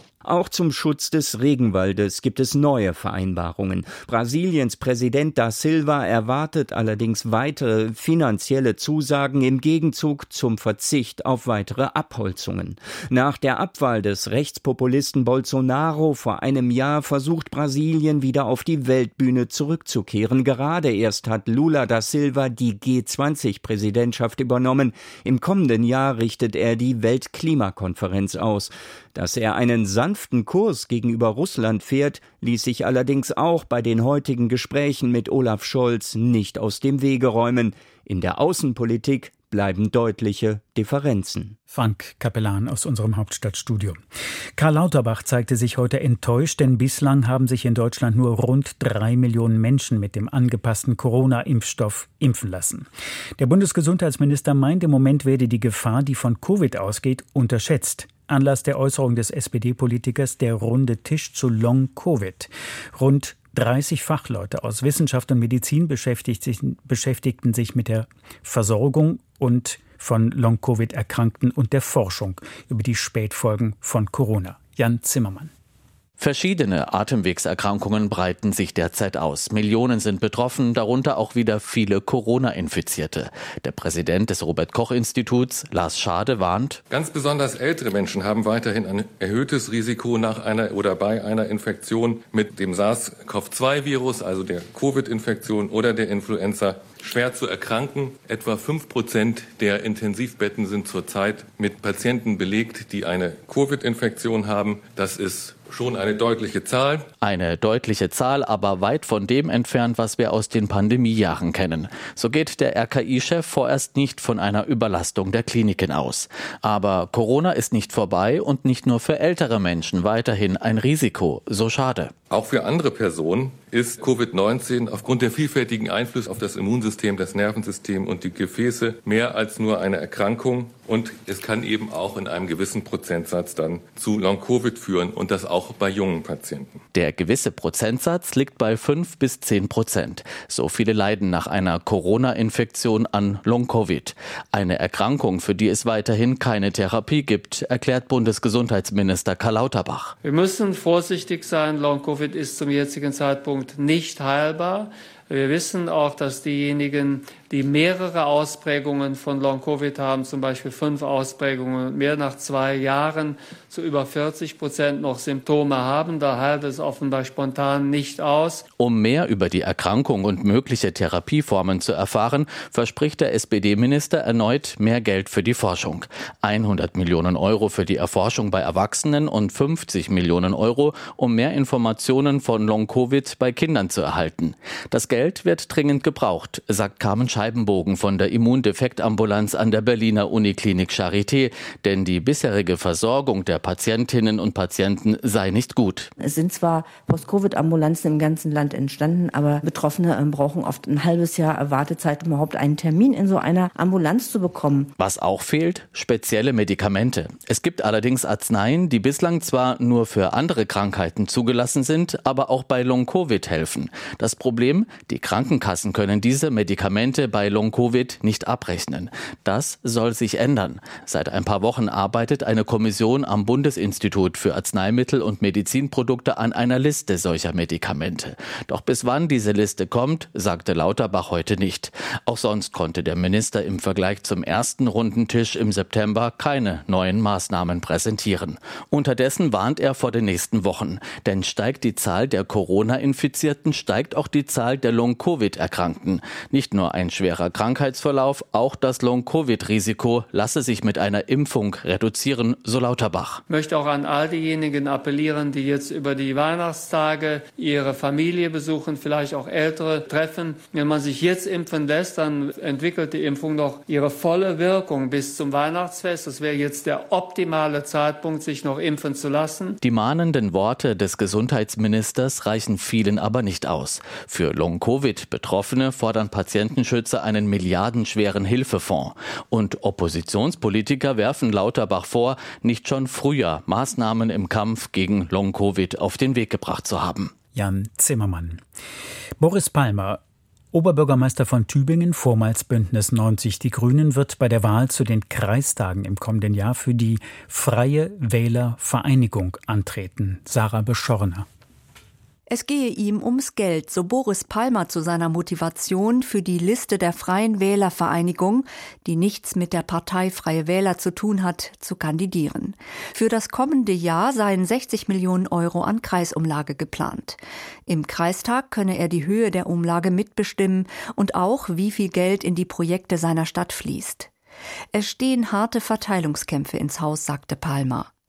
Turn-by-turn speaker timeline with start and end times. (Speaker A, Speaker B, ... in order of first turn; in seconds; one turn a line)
Speaker A: 0.2-41.5
Speaker B: 41.7-44.0
Speaker B: 44.6-52.9
Speaker B: 53.4-75.5
Speaker C: 76.2-86.8
Speaker D: 86.9-107.0
Speaker C: 107.2-122.1
Speaker D: 122.3-136.8
Speaker C: 136.9-150.1
Speaker E: 150.2-168.6
Speaker C: 168.8-196.1
Speaker F: 196.2-204.9
Speaker C: 205.0-253.4
Speaker E: 253.5-269.8
Speaker C: 269.8-287.3
Speaker B: 287.5-288.6
Speaker B: 289.4-290.2
Speaker B: 290.7-301.4
Speaker G: 302.5-324.3
Speaker G: 324.9-328.1